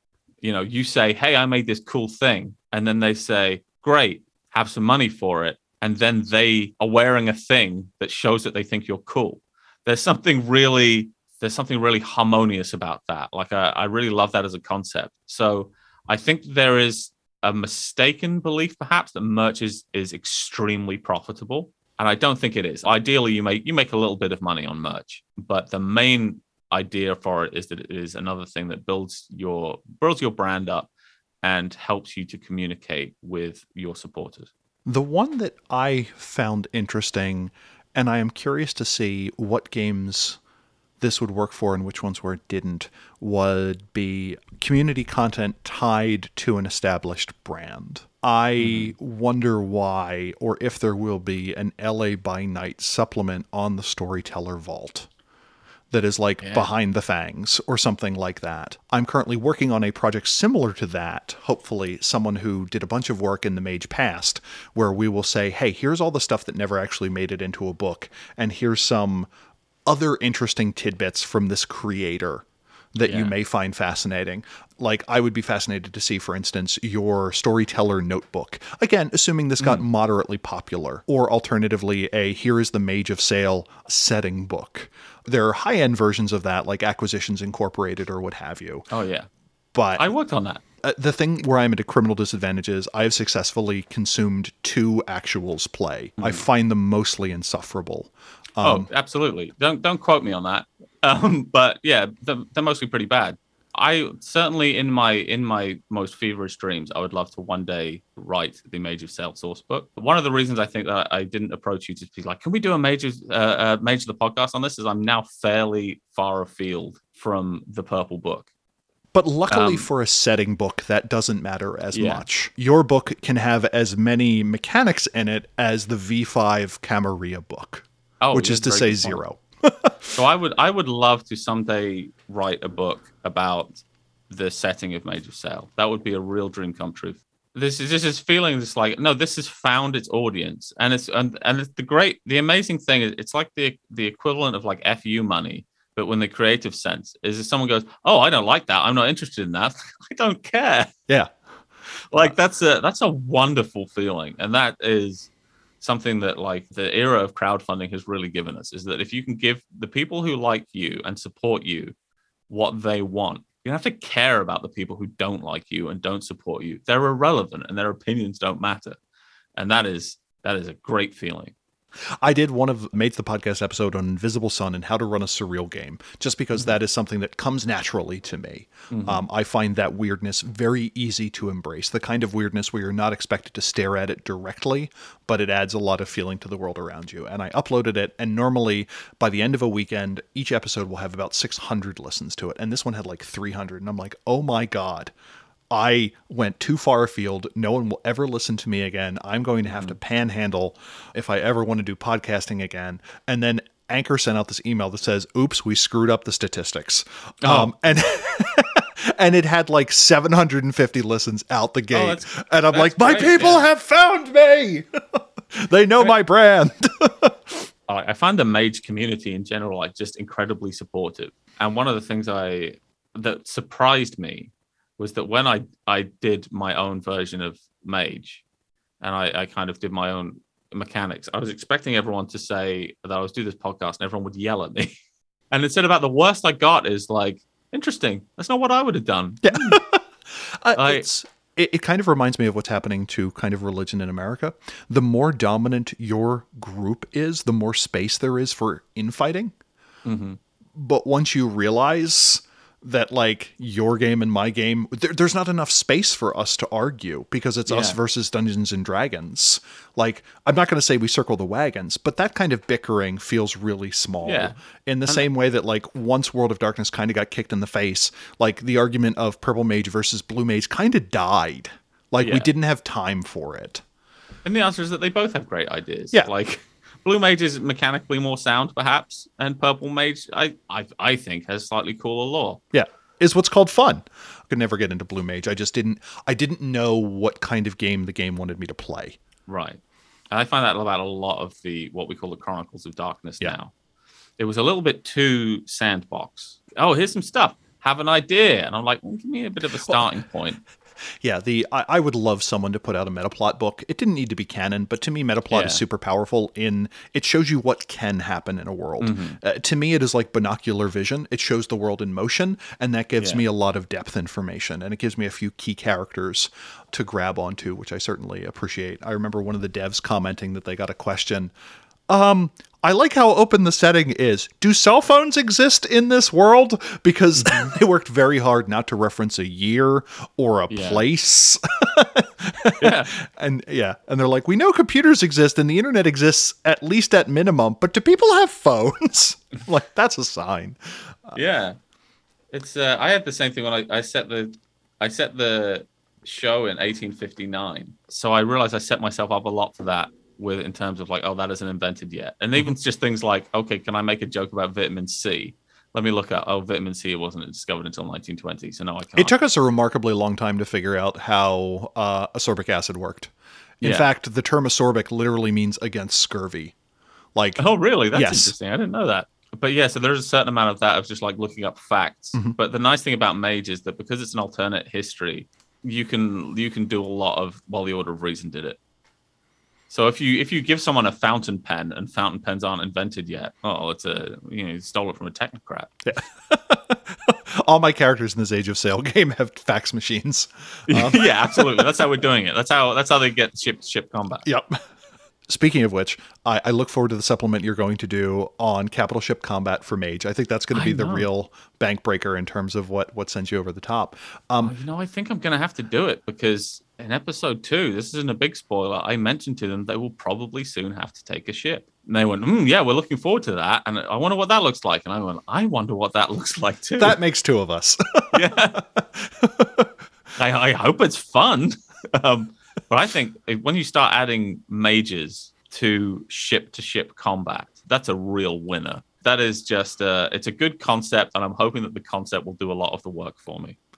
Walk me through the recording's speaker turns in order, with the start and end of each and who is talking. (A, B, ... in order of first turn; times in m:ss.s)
0:00.4-0:30.9 A
0:31.4-0:34.5 A
0:34.9-0:40.4 B
0:41.0-0:55.1 B
0:48.6-0:48.9 A
0:55.9-1:09.3 B
0:56.4-0:56.7 A
1:09.9-1:28.9 B
1:13.0-1:13.3 A
1:28.9-1:29.3 A
1:29.7-1:30.1 B
1:30.0-1:30.6 A
1:30.8-1:38.9 B
1:36.2-1:36.4 A
1:38.6-1:58.5 A
1:59.1-2:10.2 B
1:59.5-1:59.9 A
2:01.9-2:02.2 A
2:08.2-2:09.2 A
2:10.2-2:13.7 A
2:14.3-2:30.9 A
2:32.1-2:35.3 A
2:35.8-2:41.9 A
2:42.5-2:49.0 A
2:49.6-2:51.5 A
2:52.2-3:15.1 B
2:58.9-2:59.2 A
3:15.7-3:37.7 B
3:27.4-3:27.7 A
3:31.9-3:33.6 A
3:37.9-3:48.4 A
3:49.0-3:54.9 A
3:55.5-3:59.8 A
3:59.4-4:09.5 B
4:00.8-4:01.0 A
4:10.0-4:10.4 A
4:10.8-4:33.8 B
4:17.7-4:18.0 A
4:24.2-4:24.6 A
4:32.2-4:32.5 A
4:34.4-4:42.6 A
4:42.7-4:49.2 B
4:49.5-4:49.8 A
4:50.3-4:53.7 A
4:54.4-5:00.6 A
5:01.2-5:21.5 B
5:05.5-5:05.8 A
5:09.0-5:09.4 A
5:22.1-5:41.4 B
5:27.4-5:27.7 A
5:30.7-5:31.0 A
5:32.8-5:33.1 A
5:41.4-5:41.8 A
5:42.5-5:59.3 A
5:59.2-6:06.8 B
6:07.4-6:08.5 B
6:07.6-6:18.8 A
6:19.9-6:26.0 A
6:26.1-6:32.1 B
6:30.9-6:34.5 A
6:34.4-6:34.8 B
6:35.5-6:44.8 B
6:40.7-6:41.3 A
6:44.6-6:57.2 A
6:57.0-6:59.9 B
6:58.3-6:58.8 A
7:00.4-7:13.8 A